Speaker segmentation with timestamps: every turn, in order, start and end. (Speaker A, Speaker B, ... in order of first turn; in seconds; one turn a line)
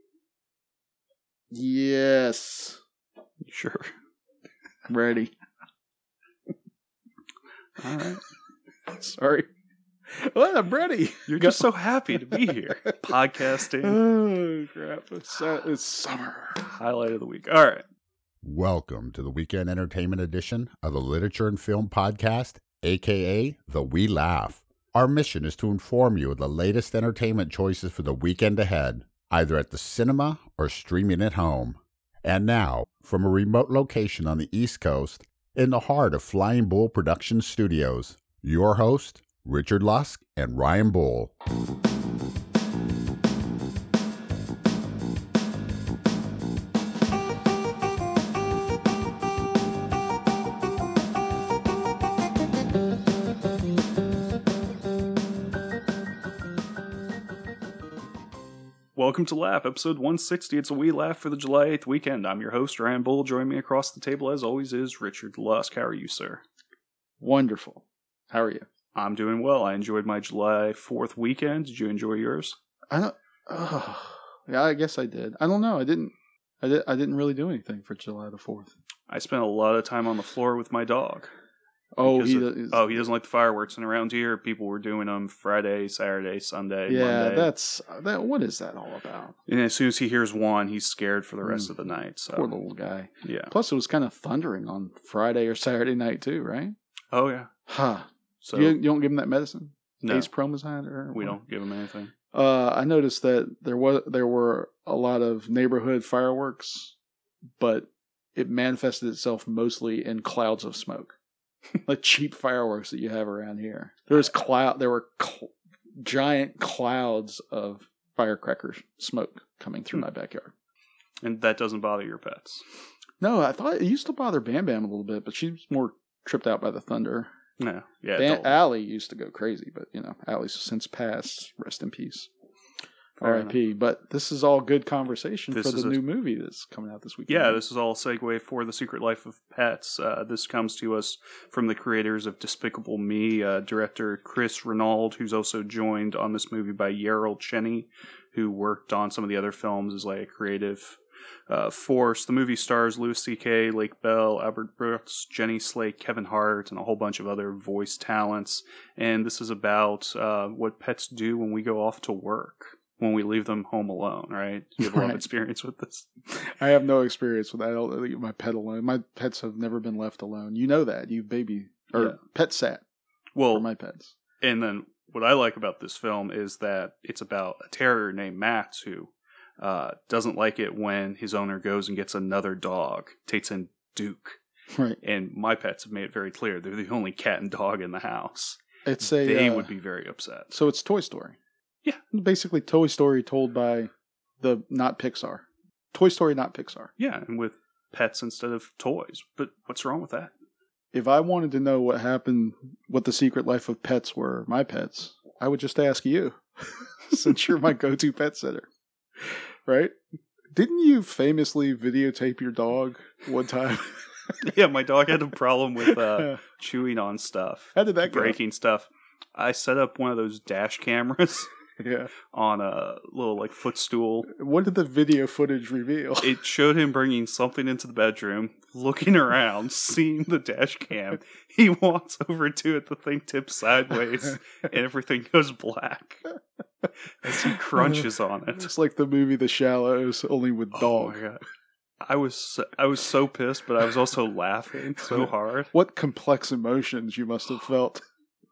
Speaker A: 1.5-2.8
Speaker B: 3.4-3.9
Speaker A: 4.9-5.3
Speaker B: 7.8-8.2
Speaker A: 8.9-9.5
Speaker A: 10.1-11.7
Speaker B: 11.3-14.0
Speaker A: 13.8-16.6
Speaker B: 16.7-17.9
Speaker C: 18.4-41.3
Speaker B: 59.0-66.4
Speaker A: 67.2-68.6
Speaker B: 68.9-72.5
Speaker A: 72.9-78.7
Speaker B: 79.1-81.3
Speaker A: 82.0-83.1
Speaker B: 82.0-87.5
Speaker A: 86.9-89.3
Speaker B: 89.5-92.5
Speaker A: 91.4-91.7
Speaker A: 92.3-96.7
Speaker B: 93.2-93.5
Speaker B: 97.1-97.5
Speaker A: 97.7-101.4
Speaker B: 98.4-98.8
Speaker B: 100.0-100.3
Speaker B: 101.1-102.1
Speaker A: 102.3-106.9
Speaker A: 107.6-111.1
Speaker A: 111.8-120.5
Speaker B: 121.2-122.6
Speaker A: 123.2-127.3
Speaker B: 127.6-128.6
Speaker A: 128.2-132.3
Speaker B: 133.2-133.6
Speaker A: 133.2-137.6
Speaker B: 135.5-136.0
Speaker B: 137.3-151.0
Speaker B: 151.5-166.1
Speaker A: 164.8-165.2
Speaker A: 166.3-172.8
Speaker B: 173.3-173.7
Speaker A: 173.5-174.1
Speaker B: 174.4-184.4
Speaker A: 184.7-185.0
Speaker B: 185.0-190.5
Speaker A: 188.8-189.7
Speaker A: 190.5-191.4
Speaker A: 192.1-193.9
Speaker A: 194.4-196.9
Speaker B: 197.0-200.3
Speaker A: 200.9-208.7
Speaker A: 209.2-209.9
Speaker A: 210.5-214.4
Speaker B: 214.4-221.5
Speaker A: 215.9-216.4
Speaker A: 217.8-218.4
Speaker A: 221.8-222.1
Speaker B: 222.3-224.3
Speaker A: 224.3-226.4
Speaker B: 226.2-236.3
Speaker B: 237.2-238.7
Speaker A: 237.3-241.2
Speaker B: 240.7-241.4
Speaker B: 242.0-245.7
Speaker A: 245.0-248.0